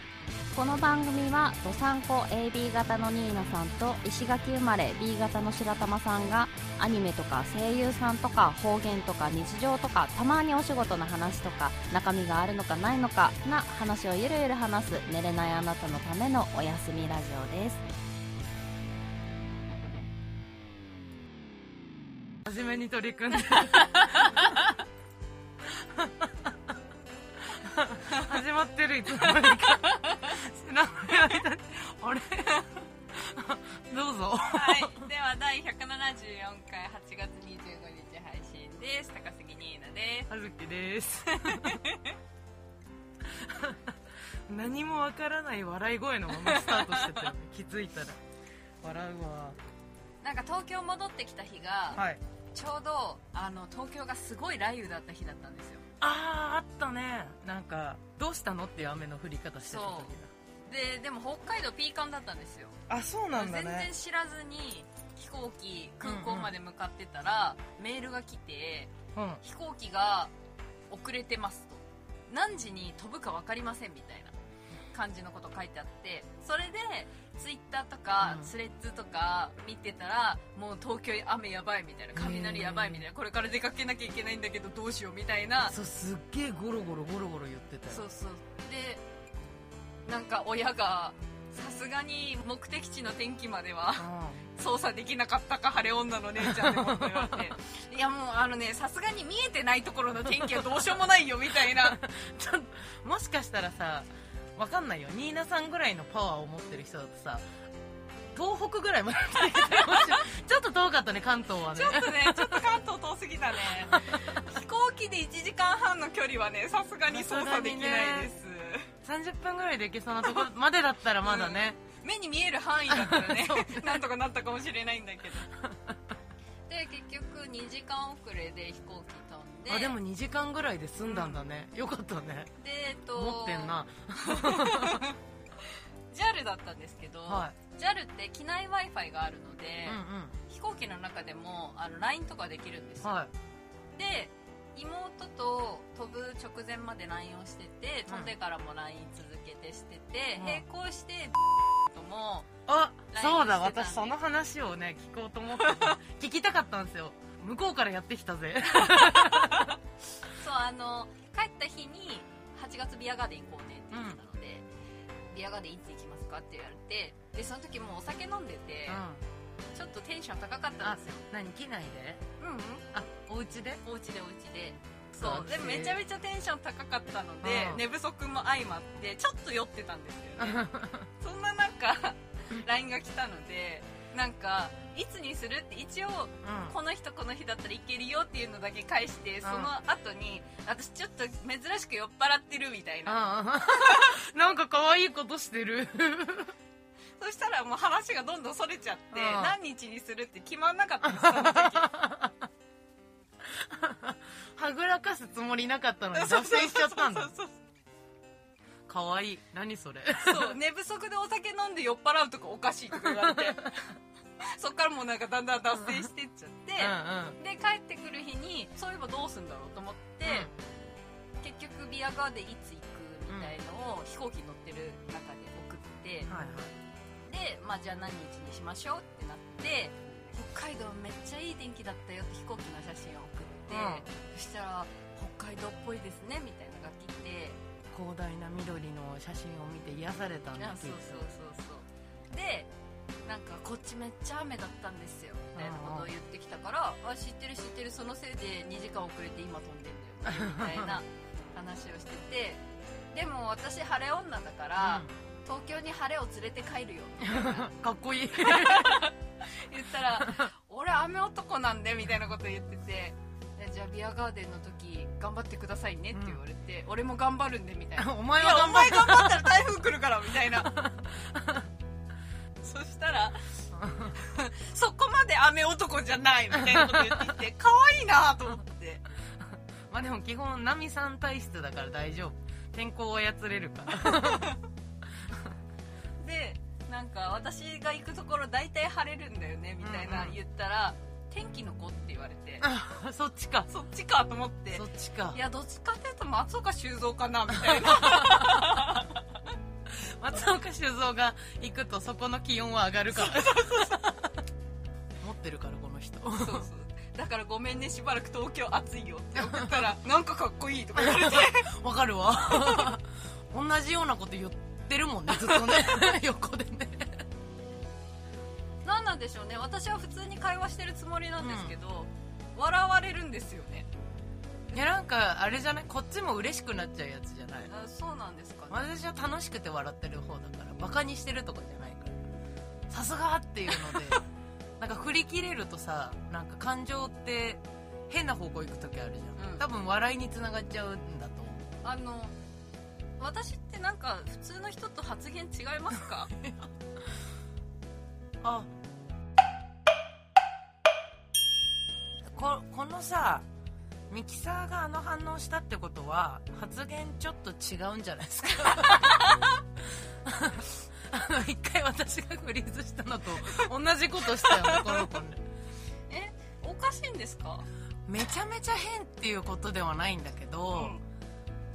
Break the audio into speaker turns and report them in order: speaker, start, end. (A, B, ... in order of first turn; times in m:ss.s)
0:00.5-0:17.8 A
0:22.4-0:24.6 B
0:24.0-0:24.5 C
0:25.6-0:26.7 B
0:27.4-0:35.1 B
0:29.2-0:30.3 C
0:34.4-0:40.3 C
0:40.3-0:41.8 B
0:41.3-0:42.1 C
0:43.2-0:48.2 B
0:46.3-0:47.3 C
0:48.8-0:49.6 B
0:50.2-0:52.0 C
0:51.9-0:52.2 B
0:52.5-0:55.8 C
0:56.0-1:00.3 B
0:59.6-1:00.1 C
1:00.7-1:02.7 C
1:02.9-1:03.9 B
1:03.3-1:10.3 C
1:06.0-1:06.5 B
1:09.1-1:09.4 B
1:10.9-1:14.3 C
1:14.9-1:25.7 C
1:18.2-1:18.5 B
1:22.1-1:23.1 B
1:25.7-1:28.0 B
1:27.9-1:29.0 C
1:30.1-1:42.0 C
1:34.0-1:34.4 B
1:36.4-1:37.5 B
1:40.4-1:40.8 B
1:41.5-1:47.4 B
1:48.3-1:52.7 B
1:49.5-1:50.1 C
1:51.7-1:58.9 C
1:53.9-1:54.4 B
1:57.1-1:58.3 B
1:59.0-2:01.8 B
2:01.2-2:05.5 C
2:02.9-2:04.0 B
2:05.6-2:06.0 B
2:06.7-2:10.0 C
2:09.7-2:12.5 B
2:11.0-2:11.4 C
2:12.6-2:15.1 C
2:13.1-2:15.0 B
2:16.1-2:23.2 C
2:17.3-2:17.5 B
2:19.8-2:20.4 B
2:23.0-2:23.3 B
2:23.9-2:32.5 C
2:28.1-2:28.3 B
2:30.4-2:30.6 B
2:32.7-2:39.7 B
2:33.1-2:34.1 C
2:35.6-2:35.9 C
2:38.7-2:39.7 C
2:40.2-2:44.6 C
2:43.9-2:44.2 B
2:45.3-2:49.0 C
2:48.9-2:49.2 B
2:49.7-2:51.2 C
2:50.8-2:52.2 B
2:52.4-2:52.8 C
2:52.9-2:53.8 B
2:53.8-3:00.7 C
2:55.2-2:56.0 B
2:57.4-2:57.8 B
3:00.4-3:01.1 B
3:01.2-3:14.1 C
3:06.4-3:06.8 B
3:09.4-3:09.7 B
3:13.0-3:16.5 B
3:17.2-3:21.9 C
3:19.1-3:19.6 B
3:21.1-3:22.4 B
3:23.4-3:27.3 B
3:26.1-3:27.6 C
3:28.9-3:30.6 B
3:30.2-3:33.9 C
3:32.9-3:33.6 B
3:34.4-3:40.5 C
3:36.8-3:37.4 B
3:40.2-3:40.5 B
3:41.4-3:46.3 C
3:43.3-3:43.5 B
3:46.3-3:46.7 B
3:47.2-3:57.6 C
3:53.7-3:54.1 B
3:57.9-4:01.2 B
4:00.6-4:02.7 C
4:03.2-4:12.6 C
4:05.5-4:06.1 B
4:10.2-4:11.0 B
4:13.1-4:17.6 C
4:14.8-4:15.1 B
4:17.2-4:19.1 B
4:18.4-4:30.7 C
4:20.2-4:20.4 B
4:26.1-4:26.4 B
4:28.0-4:29.6 B
4:30.5-4:31.7 B
4:32.6-4:33.5 C
4:33.7-4:34.1 B
4:34.1-4:39.0 C
4:36.5-4:37.3 B
4:39.9-4:44.5 B
4:44.0-4:44.6 C
4:46.2-4:52.7 C
4:49.8-4:50.4 B
4:52.6-4:53.7 B
4:53.7-4:59.2 C
4:54.7-4:55.4 B
4:57.6-4:59.0 B
4:59.9-5:04.4 B
5:03.1-5:04.0 C
5:05.2-5:06.7 B
5:06.4-5:11.7 C
5:09.4-5:09.7 B
5:10.9-5:17.2 B
5:12.5-5:12.9 C
5:18.8-5:23.9 C
5:21.4-5:21.7 B
5:24.7-5:27.7 B
5:27.7-5:28.8 C
5:28.7-5:32.2 B
5:32.9-5:34.2 B
5:33.7-5:34.2 C
5:34.8-5:41.7 B
5:39.4-5:39.6 C
5:41.8-5:42.3 C
5:43.2-5:46.3 C
5:48.4-5:48.7 B
5:52.3-5:53.5 B
5:54.1-5:59.2 B
5:58.7-5:59.4 C
6:00.2-6:05.4 B
6:04.4-6:05.1 C
6:06.1-6:07.7 C
6:08.1-6:11.0 B
6:10.7-6:11.0 C